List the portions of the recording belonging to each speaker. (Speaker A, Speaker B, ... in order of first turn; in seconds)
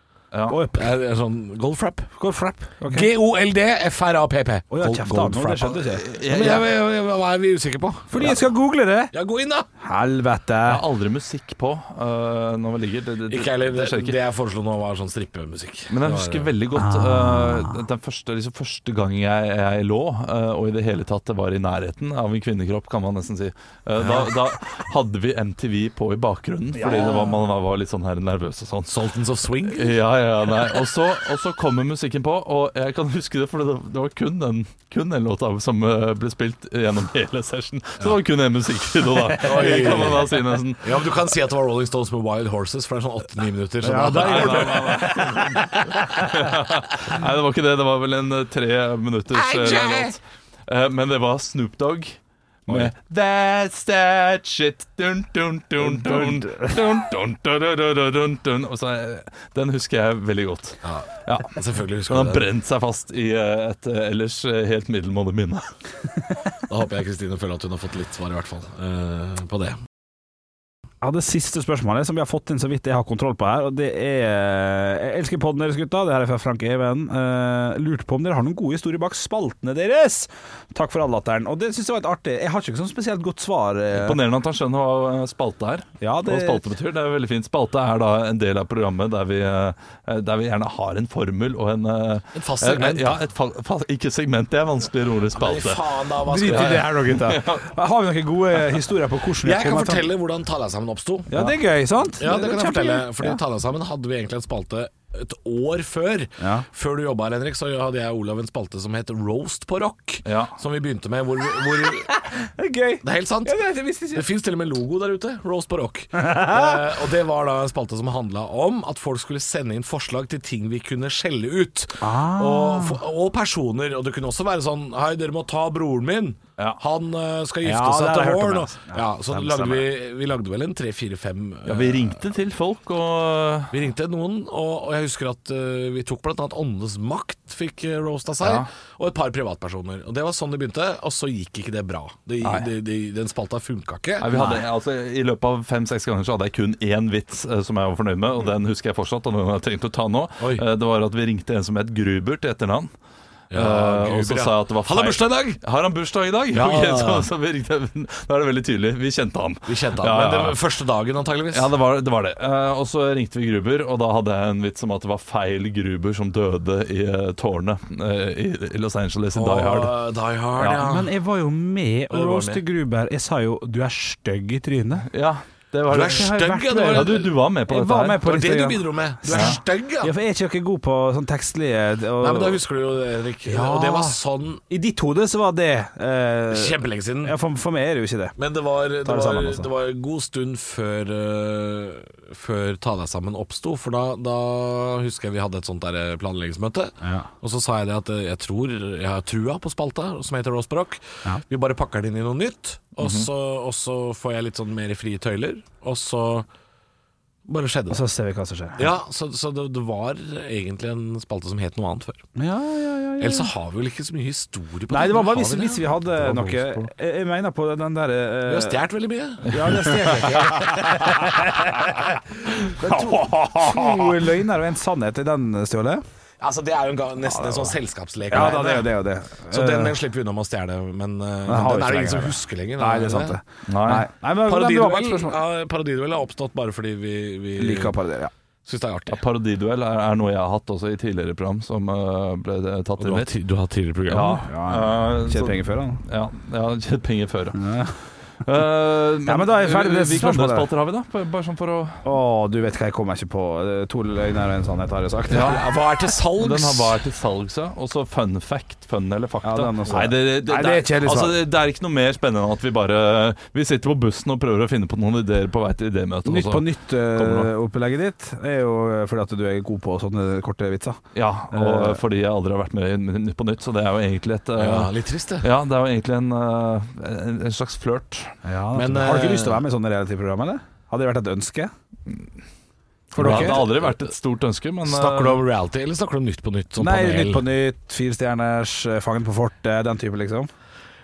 Speaker A: 0.3-0.6, 5.8-6.7, 10.6-14.2, 15.9-29.0, 29.6-41.1, 44.0-52.1, 52.7-61.5, 62.1-65.7, 83.9-97.7, 110.2-110.6, 131.7-133.7, 142.4-142.7, 144.2-152.9, 153.5-160.6, 161.5-170.0, 175.1-178.3, 223.3-224.1, 233.7-234.1, 239.1-243.3, 244.1-247.9, 248.4-252.0, 255.3-255.6, 256.4-267.5, 271.1-274.9, 275.4-278.4, 283.1-285.4
Speaker B: 0.5-0.9, 2.1-3.1, 4.7-6.0, 8.1-9.1, 9.8-10.8, 16.7-17.8, 26.8-27.4, 39.4-40.2, 43.8-46.5, 55.8-56.8, 71.0-84.2, 86.0-86.7, 96.2-100.1, 101.3-103.4, 106.4-106.6, 112.2-114.3, 116.2-116.9, 122.0-123.0, 127.6-129.9, 144.3-144.6, 170.7-175.1, 176.0-182.6, 183.4-184.2, 184.7-188.3, 189.0-189.7, 197.0-197.3, 207.9-208.9, 212.3-213.5, 214.9-218.8, 219.4-226.0, 228.3-229.9, 231.5-235.4, 237.6-238.3, 244.4-246.0, 247.5-247.9, 249.2-250.7, 252.0-255.6, 259.4-261.4, 266.2-271.0, 271.5-272.0, 278.4-281.7, 283.1-283.7, 286.8-290.5
Speaker C: 0.7-2.1, 2.9-8.4, 9.1-9.7, 13.3-16.5, 24.0-24.3, 28.9-30.0, 39.4-45.1, 49.3-50.1, 60.8-62.5, 66.7-69.8, 92.3-93.2, 95.3-96.9, 99.4-101.3, 102.2-112.2, 113.0-113.6, 114.1-132.2, 133.7-144.3, 153.5-155.6, 156.5-157.3, 159.7-161.7, 169.3-171.1, 172.1-172.6, 175.9-177.3, 178.2-180.1, 182.2-184.6, 186.5-187.3, 188.4-206.5, 207.5-208.0, 208.8-212.2, 213.2-216.3, 218.4-221.5, 222.6-223.0, 226.4-229.0, 229.5-233.4, 234.4-237.9, 238.6-239.2, 243.0-244.4, 255.3-256.9, 274.6-275.5, 278.7-279.6, 283.2-283.7, 284.8-287.4